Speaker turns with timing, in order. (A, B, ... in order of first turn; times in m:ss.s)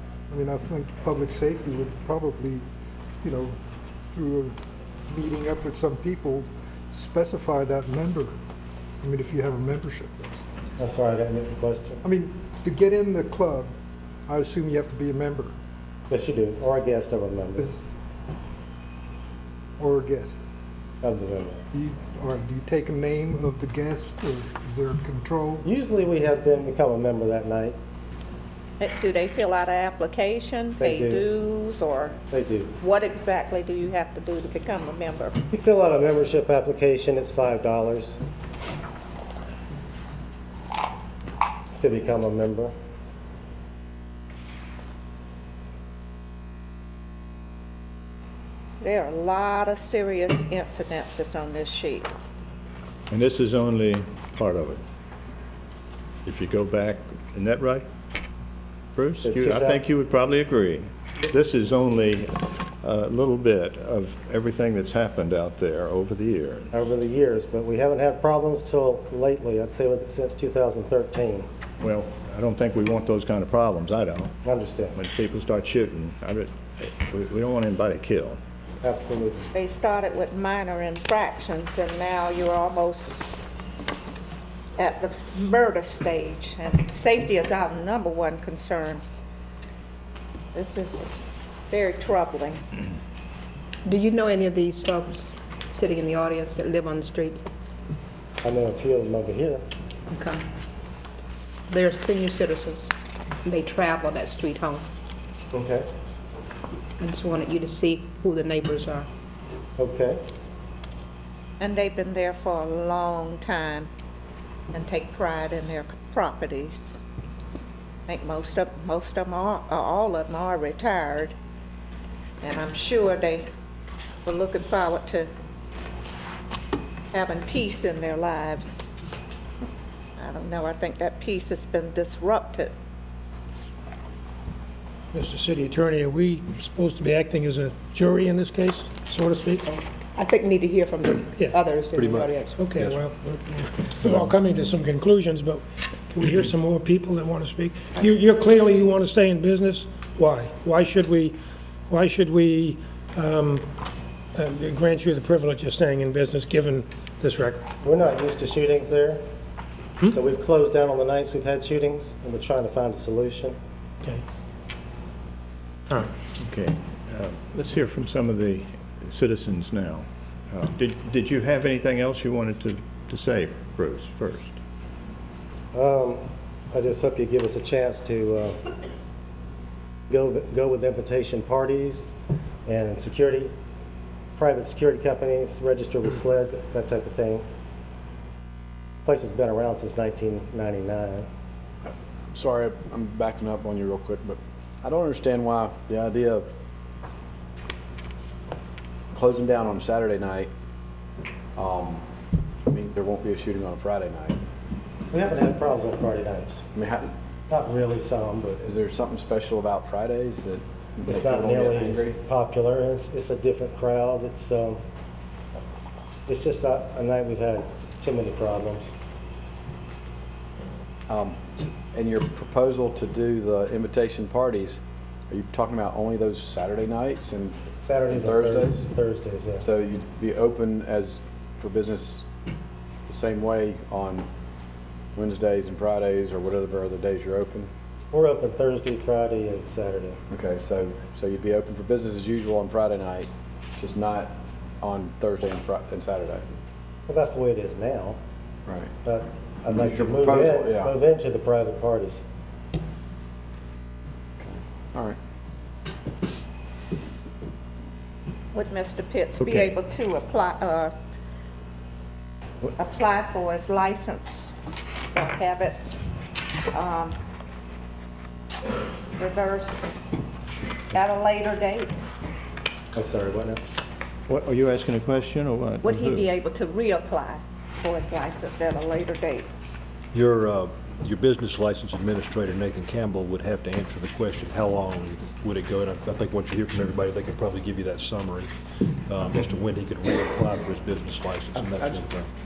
0:00.3-0:02.6 A
0:03.2-0:03.6 A
0:04.1-0:04.5 A
0:05.1-0:08.3 A
0:09.0-0:10.4 A
0:10.8-0:12.0 B
0:12.1-0:13.7 A
0:14.3-0:15.5 A
0:16.1-0:17.7 B
0:17.6-0:17.9 A
0:19.8-0:20.4 A
0:21.0-0:21.6 B
0:21.7-0:25.6 A
0:25.6-0:27.8 B
0:28.8-0:32.2 C
0:30.8-0:31.2 B
0:32.3-0:32.7 B
0:32.8-0:35.4 C
0:35.5-0:38.2 B
0:41.8-0:42.7 B
0:48.8-0:52.1 C
0:53.1-0:54.8 D
0:56.2-0:57.9 D
0:58.9-1:06.7 D
0:59.2-0:59.8 B
1:06.7-1:11.5 B
1:11.8-1:14.3 D
1:14.4-1:15.0 B
1:14.9-1:18.4 D
1:18.8-1:19.5 B
1:19.5-1:23.4 C
1:24.8-1:29.0 C
1:30.5-1:32.6 C
1:33.8-1:37.4 E
1:38.4-1:39.6 B
1:40.1-1:40.4 E
1:41.7-1:42.9 E
1:43.4-1:44.8 E
1:45.5-1:45.8 B
1:47.0-1:49.1 E
1:49.8-1:50.2 B
1:51.6-1:53.9 C
1:54.7-1:57.0 C
1:58.1-2:01.3 C
2:02.4-2:03.5 C
2:04.2-2:05.3 C
2:07.1-2:08.8 C
2:10.2-2:12.7 C
2:15.1-2:19.8 F
2:20.1-2:22.6 E
2:21.9-2:23.0 G
2:22.5-2:33.7 F
2:24.0-2:24.3 G
2:34.3-2:37.7 F
2:37.8-2:39.2 B
2:40.1-2:43.6 B
2:46.4-2:54.6 D
2:55.7-2:58.7 B
3:00.1-3:02.1 B
3:02.6-3:03.5 B
3:04.4-3:07.4 B
3:09.0-3:11.3 B
3:12.3-3:16.5 H
3:19.1-3:20.5 H
3:21.6-3:22.0 H
3:22.7-3:24.4 H
3:25.1-3:26.6 B
3:26.7-3:27.1 H
3:27.5-3:28.6 B
3:28.6-3:32.2 H
3:31.0-3:34.8 B
3:36.3-3:38.9 B
3:41.1-3:47.6 H
3:47.8-3:49.7 B
3:48.1-3:48.9 H
3:49.6-3:52.2 H
3:53.1-3:54.3 H
3:55.1-3:57.7 H
3:58.1-4:00.2 B
4:00.3-4:06.4 H
4:07.1-4:08.2 B
4:09.0-4:12.2 B
4:09.7-4:10.9 H
4:14.4-4:15.2 H
4:18.5-4:20.9 C
4:19.4-4:19.7 D
4:22.8-4:24.6 C
4:25.1-4:25.9 C
4:26.7-4:27.2 C
4:29.2-4:29.8 C
4:30.7-4:31.9 C
4:32.9-4:33.6 B
4:34.3-4:36.3 D
4:35.8-4:39.5 C
4:40.1-4:52.3 G
4:51.5-4:52.0 H